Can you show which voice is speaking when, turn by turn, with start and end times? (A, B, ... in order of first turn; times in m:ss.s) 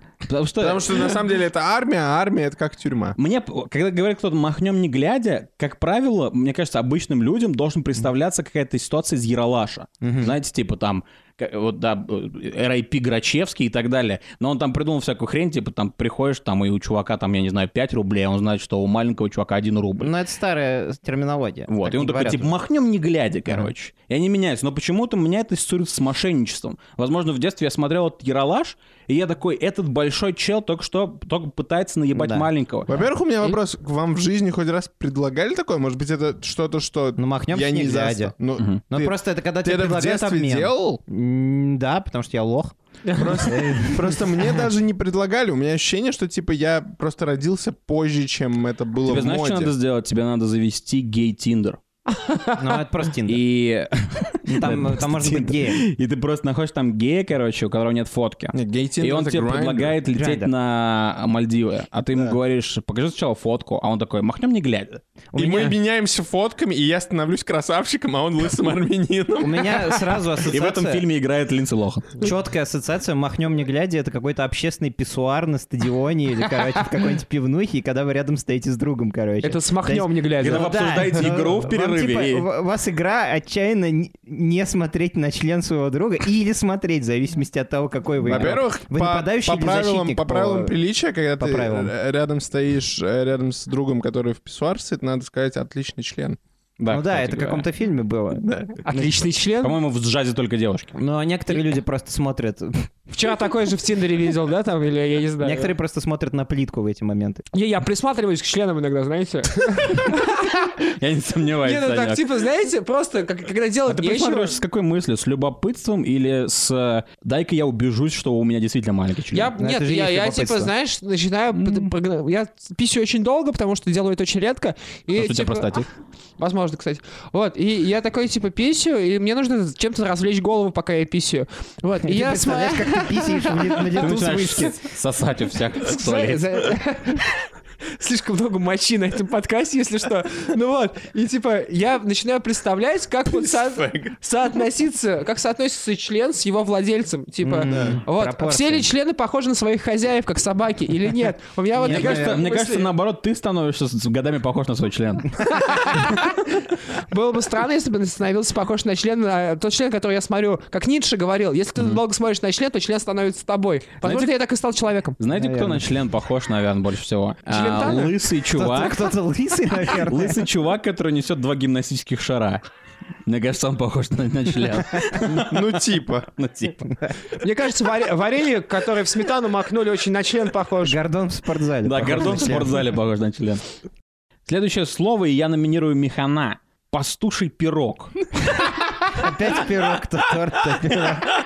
0:00.2-0:01.1 A
0:00.6-0:03.2 B
0:03.2-0:20.1 A
0:10.0-0:10.3 C
0:20.0-0:22.5 C
0:21.7-0:32.9 A
0:32.1-0:32.5 C
0:32.9-0:41.0 B
0:37.2-0:38.3 C
0:38.9-0:42.8 C
0:43.1-0:43.4 D
0:43.1-0:49.7 B
0:43.4-0:44.3 C
0:49.1-0:51.8 A
0:52.1-0:52.7 D
0:52.6-0:53.4 C
0:53.3-1:05.0 A
0:54.5-0:55.8 C
0:58.5-1:00.0 B
1:00.1-1:00.5 C
1:05.3-1:05.8 C
1:05.4-1:10.2 B
1:09.4-1:11.0 C
1:10.5-1:12.3 A
1:12.2-1:30.8 C
1:19.4-1:21.2 D
1:20.4-1:22.5 A
1:28.2-1:36.4 B
1:28.2-1:28.6 A
1:31.4-1:31.9 C
1:36.8-1:37.7 A
1:36.9-1:39.1 C
1:38.4-1:38.7 B
1:38.8-1:39.8 D
1:39.6-1:40.9 A
1:41.0-1:42.9 C
1:43.1-1:45.7 D
1:45.4-1:47.4 C
1:47.5-1:50.7 D
1:50.9-1:52.2 A
1:51.6-1:54.6 D
1:53.9-1:59.5 A
1:59.3-2:05.8 D
1:59.6-2:00.7 C
2:05.1-2:05.9 A
2:06.4-2:14.8 D
2:12.0-2:14.7 C
2:14.0-2:16.4 A
2:15.8-2:17.4 D
2:18.0-2:32.9 D
2:23.3-2:24.1 B
2:27.4-2:28.9 C
2:27.7-2:28.0 B
2:31.8-2:32.5 C
2:31.9-2:35.5 A
2:35.4-2:45.2 D
2:44.0-2:44.3 A
2:45.2-2:49.1 A
2:45.3-2:45.9 C
2:47.5-2:48.3 D
2:48.5-2:50.5 C
2:49.8-2:52.6 A
2:53.2-2:56.9 A
2:55.2-2:56.3 B
2:56.9-2:57.2 C
2:57.4-3:01.0 D
3:00.8-3:02.9 C
3:01.8-3:03.6 A
3:04.5-3:08.1 A
3:09.1-3:11.3 C